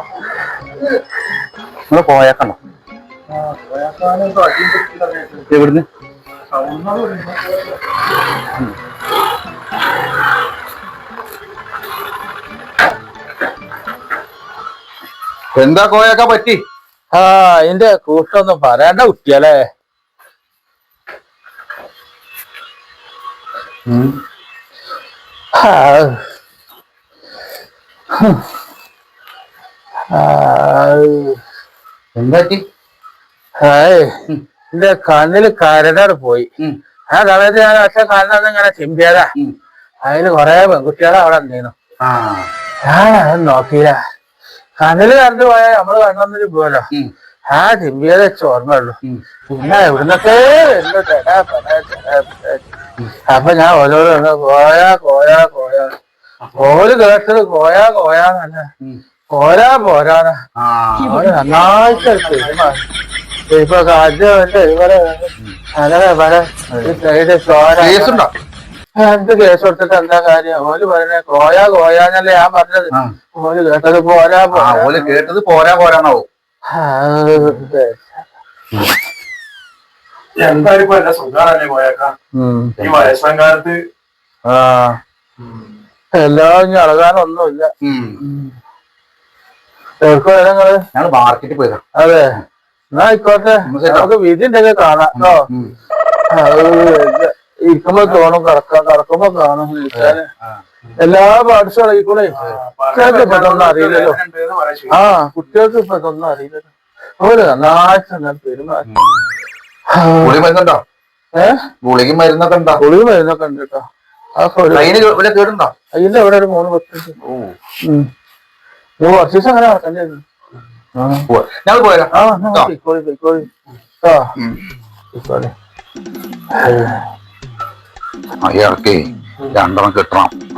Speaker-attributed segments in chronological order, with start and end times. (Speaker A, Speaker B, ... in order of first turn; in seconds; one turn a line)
Speaker A: 1.9-2.6
Speaker B: 3.3-5.5
Speaker A: 5.5-5.9
Speaker B: 6.5-7.7
Speaker A: 15.6-16.6
Speaker C: 17.1-19.6
Speaker A: 23.9-24.2
Speaker C: 25.6-26.2
Speaker C: 28.1-28.4
Speaker C: 30.1-31.4
Speaker A: 32.1-32.6
Speaker C: 33.6-34.2
Speaker C: 34.7-36.5
Speaker C: 37.1-39.3
Speaker C: 40.0-41.7
Speaker A: 42.0-42.5
Speaker C: 42.8-44.0
Speaker C: 44.8-46.9
Speaker C: 47.5-49.0
Speaker C: 49.5-52.6
Speaker C: 53.3-55.9
Speaker C: 56.5-58.7
Speaker C: 59.3-60.4
Speaker A: 60.6-61.3
Speaker C: 61.0-62.8
Speaker B: 61.2-62.8
Speaker C: 63.5-68.2
Speaker A: 66.7-67.0
Speaker A: 67.8-68.3
Speaker C: 69.0-75.3
Speaker A: 74.5-76.3
Speaker C: 76.7-78.2
Speaker B: 80.4-82.1
Speaker C: 82.3-82.8
Speaker A: 82.8-83.1
Speaker B: 82.8-83.8
Speaker C: 86.1-88.5
Speaker A: 87.8-88.2
Speaker C: 90.0-90.8
Speaker A: 91.0-91.8
Speaker C: 92.0-92.3
Speaker C: 92.9-95.4
Speaker A: 93.7-94.1
Speaker A: 95.1-95.7
Speaker C: 96.3-100.3
Speaker A: 99.9-100.6
Speaker C: 101.0-104.2
Speaker B: 102.3-105.1
Speaker C: 104.9-108.9
Speaker A: 108.9-109.2
Speaker C: 109.9-110.4
Speaker A: 110.2-110.8
Speaker C: 111.3-111.7
Speaker A: 111.8-112.8
Speaker C: 112.8-115.0
Speaker A: 114.7-115.7
Speaker C: 115.9-117.2
Speaker A: 117.2-117.5
Speaker C: 117.8-118.1
Speaker C: 119.0-120.2
Speaker C: 121.0-121.3
Speaker A: 121.3-122.7
Speaker C: 122.1-123.5
Speaker C: 124.0-124.3
Speaker C: 125.1-125.5
Speaker C: 126.5-127.1
Speaker A: 128.4-130.3